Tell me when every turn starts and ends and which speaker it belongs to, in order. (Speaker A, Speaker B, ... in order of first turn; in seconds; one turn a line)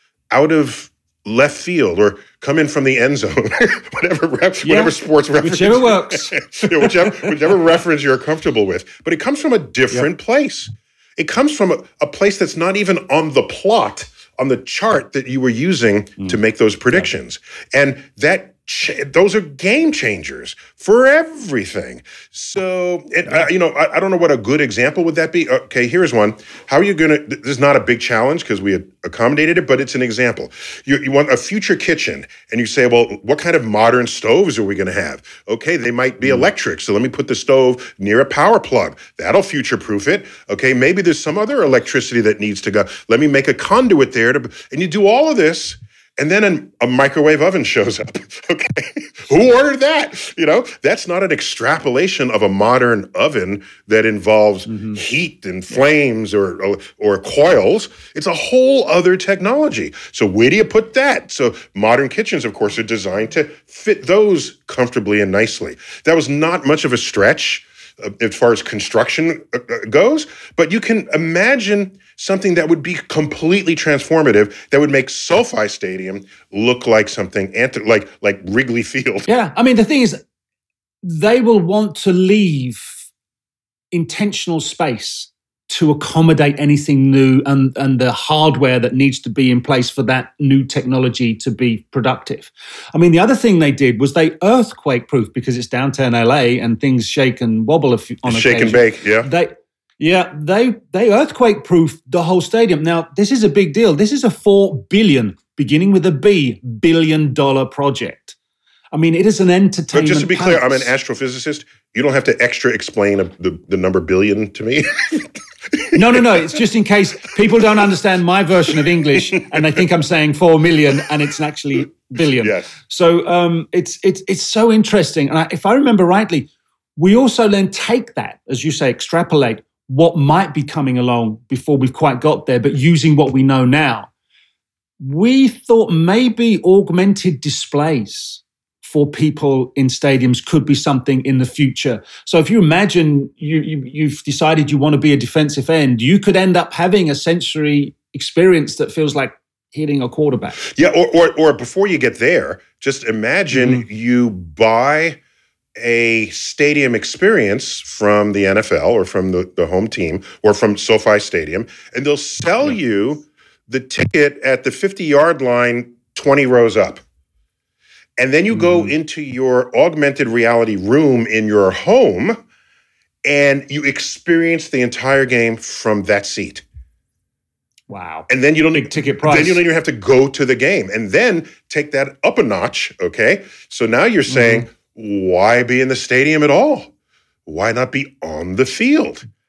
Speaker A: 0.3-79.3
Speaker B: 4.6-7.6
Speaker B: 54.6-55.0
Speaker B: 79.3-80.2
Speaker B: 81.0-83.0
Speaker B: 83.9-108.3
Speaker A: 98.2-99.3
Speaker B: 108.9-110.9
Speaker A: 109.9-116.6
Speaker B: 115.9-134.1
Speaker A: 119.1-119.8
Speaker A: 122.3-122.7
Speaker B: 135.0-150.6
Speaker A: 150.6-155.2
Speaker B: 153.5-153.8
Speaker A: 155.8-167.0
Speaker A: 168.2-172.4
Speaker B: 168.5-168.9
Speaker A: 173.2-176.6
Speaker B: 177.9-179.6
Speaker A: 178.3-186.9
Speaker B: 184.3-184.7
Speaker A: 187.4-189.2